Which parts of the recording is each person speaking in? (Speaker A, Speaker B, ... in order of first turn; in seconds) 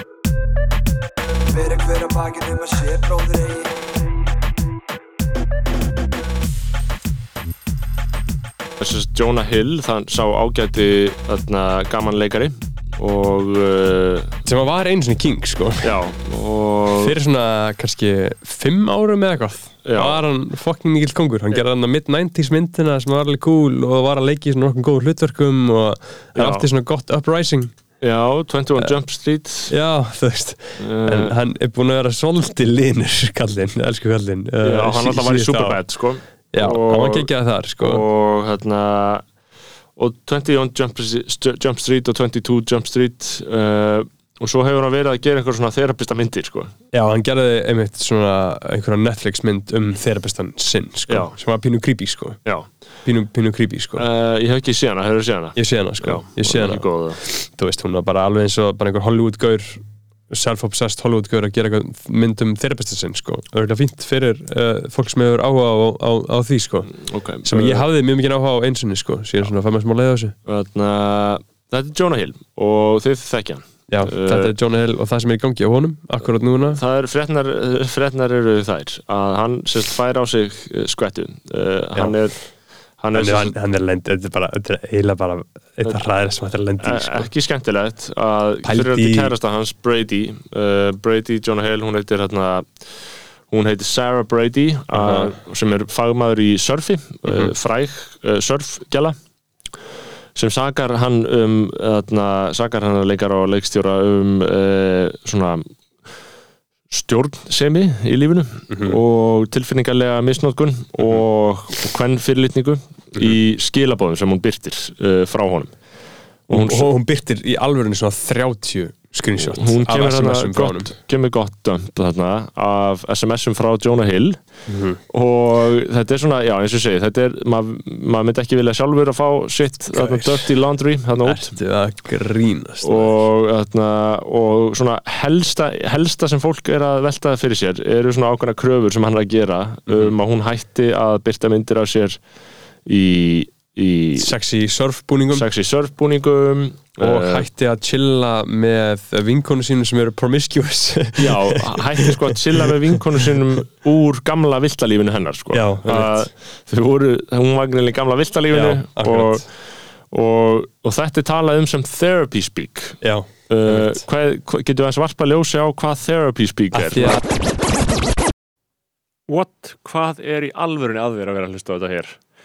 Speaker A: 1.6-3.7
Speaker B: 8.8-14.3, 15.8-17.1, 19.8-20.2, 26.3-26.7, 28.0-29.7, 30.8-31.3, 34.6-39.2, 40.0-46.7, 51.1-51.4, 54.0-57.2, 66.9-67.8, 70.5-74.5, 76.8-83.5, 85.8-86.1, 86.8-99.1, 100.3-105.7, 106.9-115.7, 116.5-116.9, 119.4-124.4, 125.1-131.5, 132.8-142.2, 142.8-144.3, 145.3-147.5, 151.2-167.2, 169.3-172.2
Speaker C: 14.4-15.9, 16.9-27.7, 29.7-35.8, 36.5-38.0, 46.9-52.4, 53.0-54.0, 55.5-70.3, 73.9-76.8, 83.1-87.3, 88.6-89.3, 94.9-95.3, 97.3-97.5, 108.7-109.0, 116.5-121.0, 124.7-125.0, 129.9-130.5, 131.2-133.2, 139.9-140.1, 144.2-145.5, 147.0-153.0, 155.5-156.3, 158.5-159.4, 163.0-164.0, 166.7-167.2